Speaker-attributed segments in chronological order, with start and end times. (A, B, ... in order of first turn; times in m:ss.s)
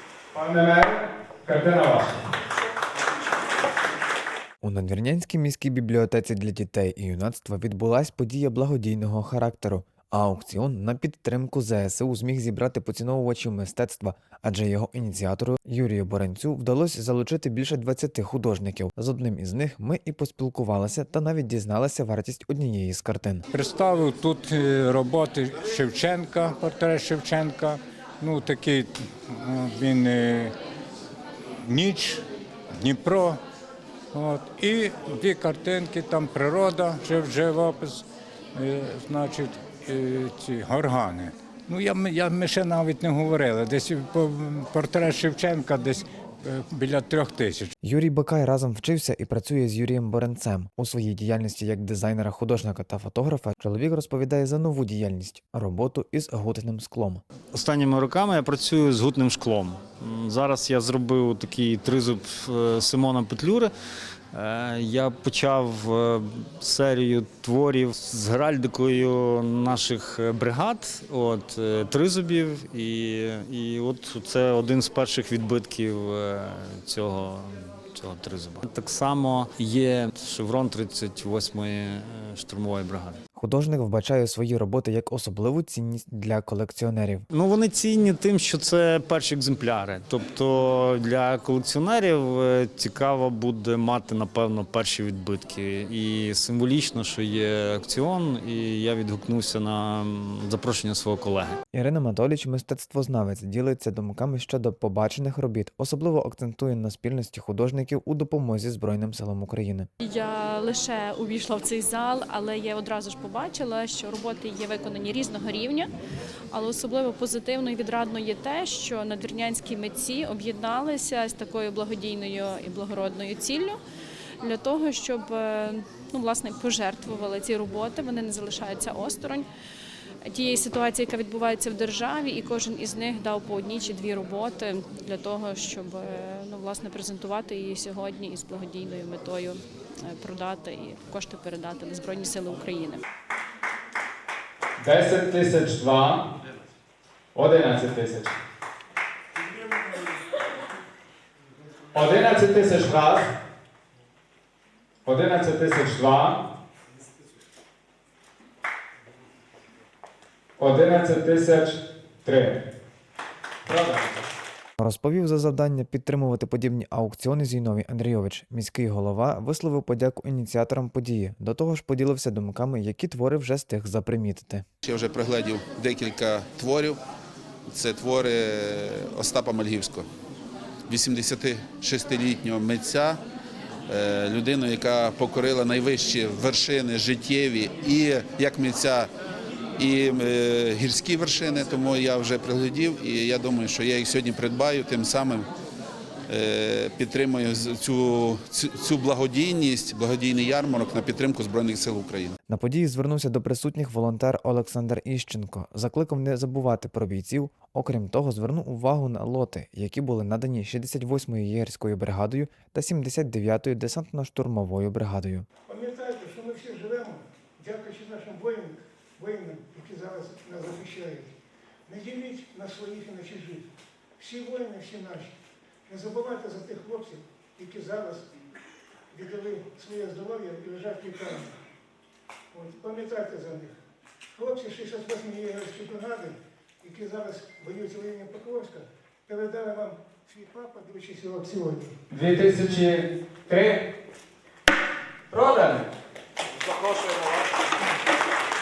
0:00.3-0:02.2 A
0:04.6-0:23.4 B
0:23.5-0:30.5 C
0:31.6-0:32.2 C
0:32.8-0:33.4 C
0:34.1-0:47.7 C
0:47.8-0:57.2 B
0:57.5-1:03.7 D
1:04.3-1:23.2 D
1:23.3-1:27.2 B
1:27.3-1:41.6 D
1:41.7-1:49.9 B
1:50.0-1:55.9 E
1:56.5-2:03.8 E
2:04.4-2:09.5 E
2:10.3-2:23.0 E
2:24.8-2:26.3 A
2:27.3-2:28.4 A
2:31.9-2:33.3 A
2:35.0-2:36.4 A
2:40.6-2:42.6 A
2:43.6-2:44.2 A
2:44.8-2:54.6 B
2:54.8-2:57.0 F
2:57.7-3:00.0 F
3:00.9-3:03.2 F
3:03.9-3:09.1 F
3:09.8-3:15.5 F
3:16.3-3:22.4 F
3:22.5-3:35.5 B
3:35.7-3:41.3 G
3:41.8-3:45.3 G
3:45.9-3:48.3 G
3:49.1-3:51.6 G
3:52.5-3:53.7 G
3:54.3-4:01.9 G
4:02.1-4:03.8 A
4:05.3-4:05.9 A